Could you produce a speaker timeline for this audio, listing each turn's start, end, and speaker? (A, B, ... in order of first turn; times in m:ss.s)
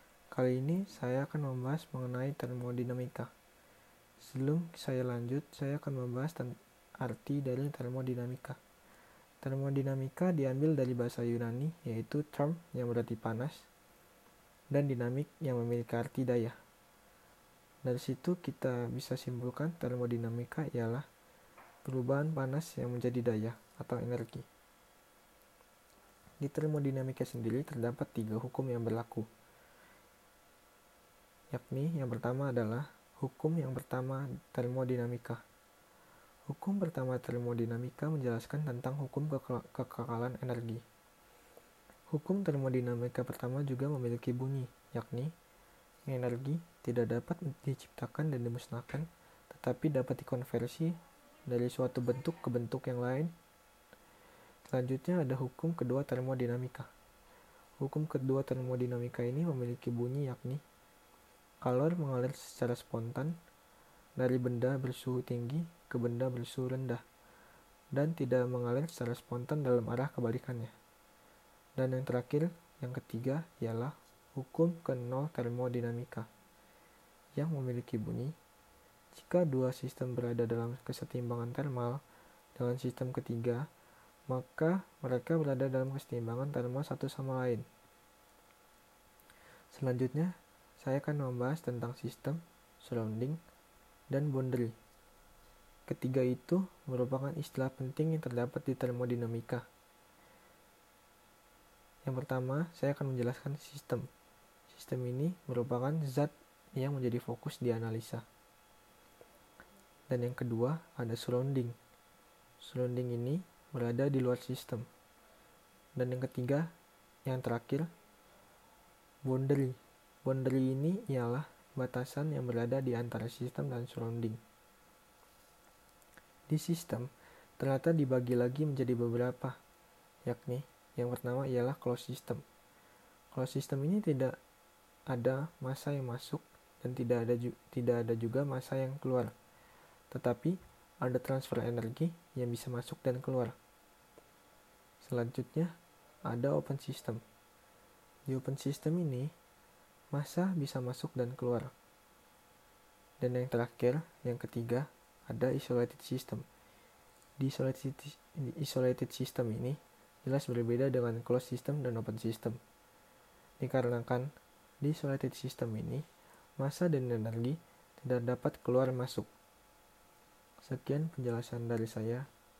0:00.3-0:03.3 A
0:04.2-0:08.6 A
0:09.4-0:13.7 A
0:14.7-0:16.6 A
0:17.8-0:21.0 A
0:21.8-0:24.4 A
0:26.4-0:29.3 A
0:31.5-0:35.4 A
0:36.5-0:40.8 A
0:42.1-0:45.3 A
0:46.0-0:53.3 A
0:54.7-0:56.9 A
0:57.8-1:00.6 A
1:01.6-1:03.3 A
1:04.2-1:07.0 A
1:07.9-1:10.7 A
1:11.8-1:16.3 A
1:17.3-1:18.3 A
1:19.1-1:22.0 A
1:22.6-1:23.6 A
1:24.3-1:27.6 A
1:29.7-1:33.4 A
1:34.1-1:34.7 A
1:35.9-1:39.6 A
1:42.0-1:44.1 A
1:44.7-1:48.2 A
1:50.1-1:51.8 A
1:52.6-1:54.8 A
1:55.9-1:56.7 A
1:57.2-1:57.9 A
1:59.2-2:04.4 A
2:06.5-2:09.6 A
2:10.2-2:12.4 A
2:13.3-2:14.4 A
2:15.1-2:19.3 A
2:20.1-2:23.5 A
2:25.0-2:25.7 A
2:26.2-2:27.2 A
2:28.3-2:29.3 A
2:30.1-2:31.7 A
2:33.2-2:36.4 A
2:37.4-2:42.6 A
2:43.6-2:44.3 A
2:44.8-2:46.0 A
2:46.6-2:49.3 A
2:50.6-2:52.2 A